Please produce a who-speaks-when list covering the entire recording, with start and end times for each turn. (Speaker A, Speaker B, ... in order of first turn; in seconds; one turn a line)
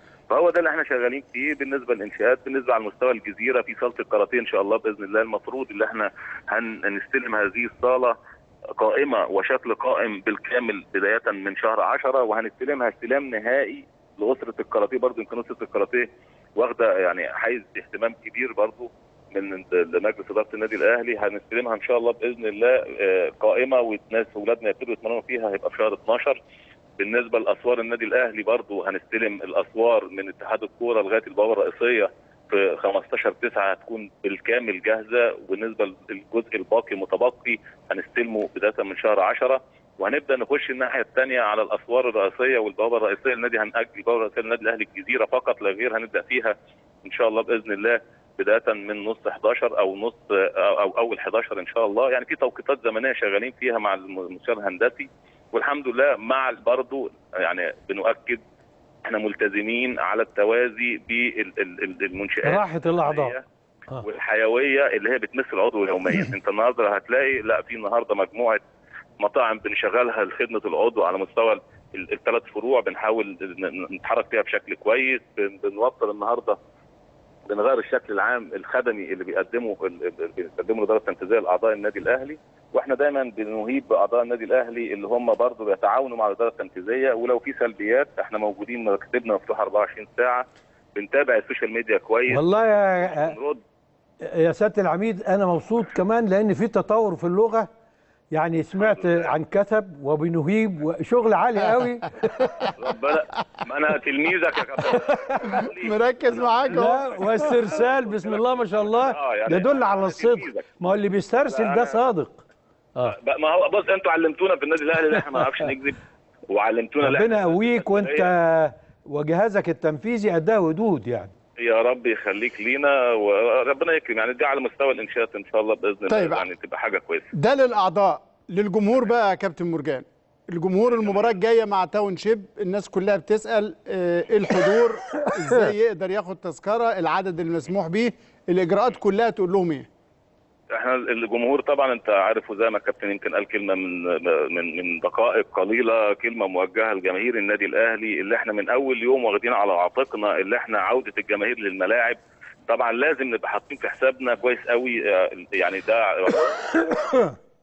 Speaker A: 0.3-8.2
Speaker A: 8.8-26.4
Speaker A: 27.0-58.4
Speaker A: 59.0-63.4
Speaker B: 62.4-63.3
Speaker A: 64.0-68.6
Speaker A: 69.2-76.6
Speaker A: 77.5-92.4
Speaker B: 92.3-93.4
Speaker A: 93.0-93.6
Speaker B: 94.2-97.7
Speaker B: 98.3-102.7
Speaker A: 98.8-99.3
Speaker A: 102.8-110.7
Speaker C: 105.4-107.5
Speaker B: 106.7-112.4
Speaker A: 111.4-112.0
Speaker A: 113.0-116.0
Speaker A: 116.5-118.3
Speaker B: 117.0-121.3
Speaker A: 121.6-127.3
Speaker C: 126.1-126.4
Speaker C: 127.3-139.9
Speaker A: 131.0-131.3
Speaker A: 140.7-152.2
Speaker A: 152.7-157.2